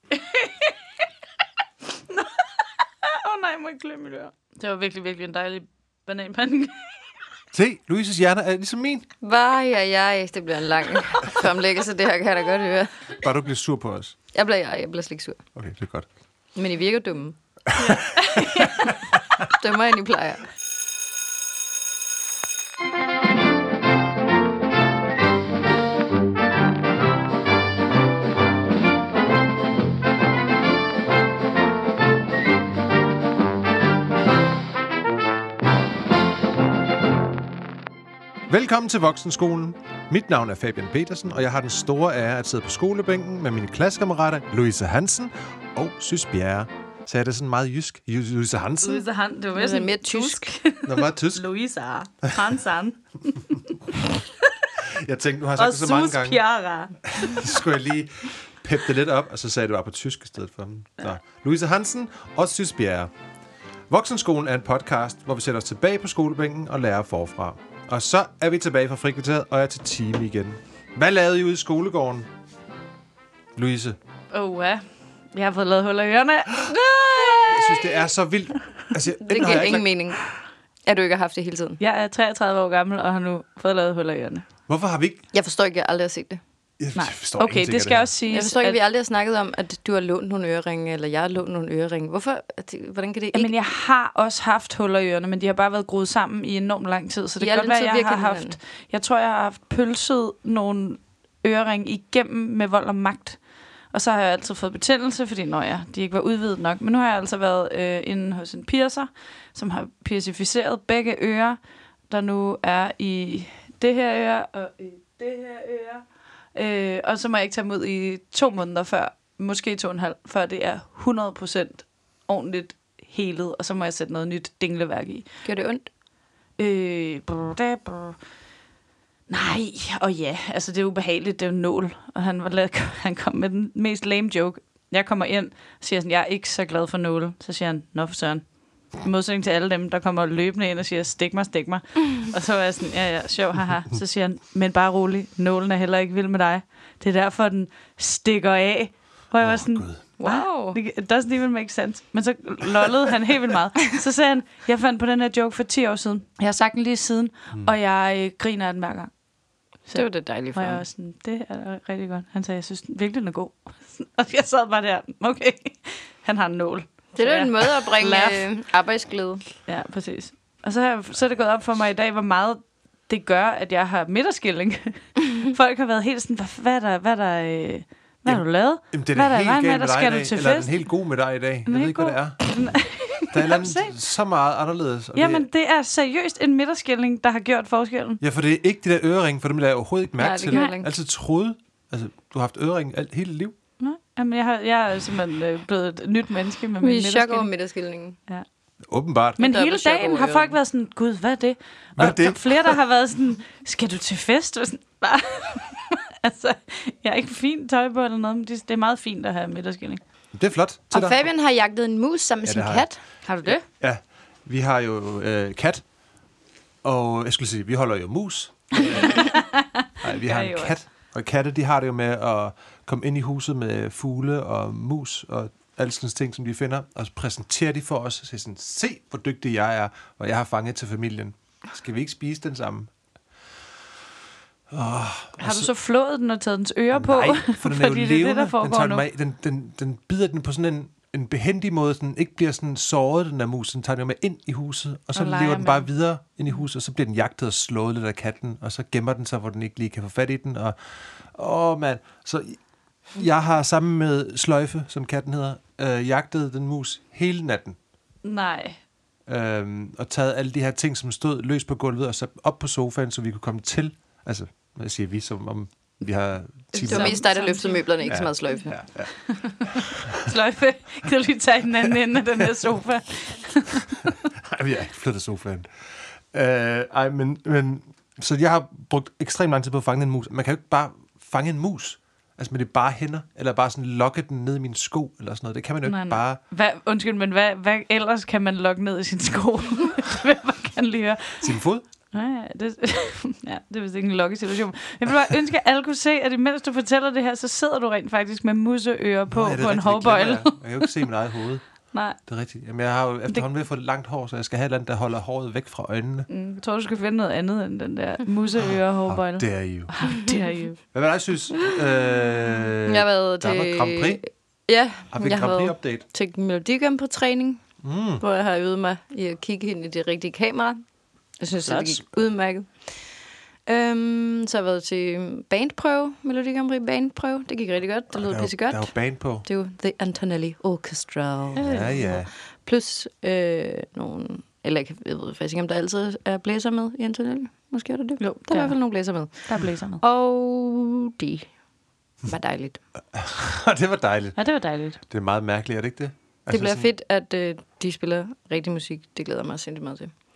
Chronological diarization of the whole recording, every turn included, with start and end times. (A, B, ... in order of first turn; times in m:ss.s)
0:00.1-0:00.7 A
0:02.1-0:07.0 A
0:07.5-0:09.1 B
0:09.2-0:13.1 C
0:13.2-0:14.2 B
0:14.3-0:15.4 C
0:15.5-0:16.2 B
0:16.5-0:17.4 C
0:17.8-0:18.9 A
0:18.4-0:18.9 B
0:19.5-0:20.5 C
0:38.5-0:49.0 B
0:48.8-0:54.4 A
0:49.6-0:50.6 C
0:50.8-0:51.5 B
0:55.0-0:56.5 B
0:55.6-0:57.6 A
0:57.0-1:03.1 B
1:03.9-1:12.3 B
1:13.6-1:14.0 B
1:14.3-1:17.4 A
1:16.7-1:17.9 C
1:17.5-1:19.9 B
1:19.2-1:21.8 C
1:21.8-1:24.5 A
1:24.7-1:25.3 B
1:25.3-1:26.4 C
1:26.8-1:28.1 B
1:27.0-1:28.8 A
1:28.3-1:33.5 C
1:33.3-2:05.3 A
1:37.4-1:38.6 C
2:05.4-2:05.9 C
2:06.6-2:08.2 A
2:09.3-2:48.7 A
2:29.4-2:30.0 B
2:30.2-2:30.8 C
2:39.9-2:40.8 C
2:47.2-2:49.4 C
2:49.6-3:01.0 A
2:58.2-3:05.5 B
3:01.7-3:04.0 A
3:05.1-3:08.2 A
3:08.2-3:13.6 B
3:10.2-3:10.9 C
3:10.5-3:10.8 A
3:13.8-3:17.6 A
3:16.8-3:18.2 C
3:18.8-3:19.4 B
3:19.4-3:30.1 A
3:19.4-3:20.6 C
3:22.0-3:22.8 B
3:30.3-3:31.3 B
3:30.9-3:33.6 C
3:32.4-3:36.2 B
3:33.3-3:33.6 A
3:36.8-3:39.5 B
3:39.2-3:39.6 A
3:40.0-3:53.5 B
3:40.2-3:40.8 A
3:54.7-3:55.7 B
3:55.4-3:59.0 A
3:56.9-4:17.8 B
4:05.2-4:06.6 A
4:18.2-4:18.8 A
4:19.3-4:27.3 B
4:26.7-4:28.8 C
4:26.8-4:29.5 A
4:28.1-4:29.9 B
4:30.2-4:34.0 A
4:34.5-4:46.4 B
4:45.8-5:00.9 A
4:51.4-4:51.8 B
4:59.3-5:06.3 B
5:01.9-5:02.2 A
5:06.3-5:11.0 A
5:08.6-5:10.3 B
5:10.9-5:14.2 B
5:12.9-5:17.7 C
5:15.1-5:16.0 B
5:17.8-5:18.2 B
5:18.2-5:23.1 C
5:21.6-5:22.0 B
5:23.7-5:41.5 C
5:28.2-5:29.5 B
5:31.6-5:32.2 A
5:31.6-5:32.3 B
5:38.2-5:40.0 A
5:42.2-5:42.8 C
5:43.1-5:46.9 B
5:44.4-5:45.0 A
5:46.5-5:50.1 C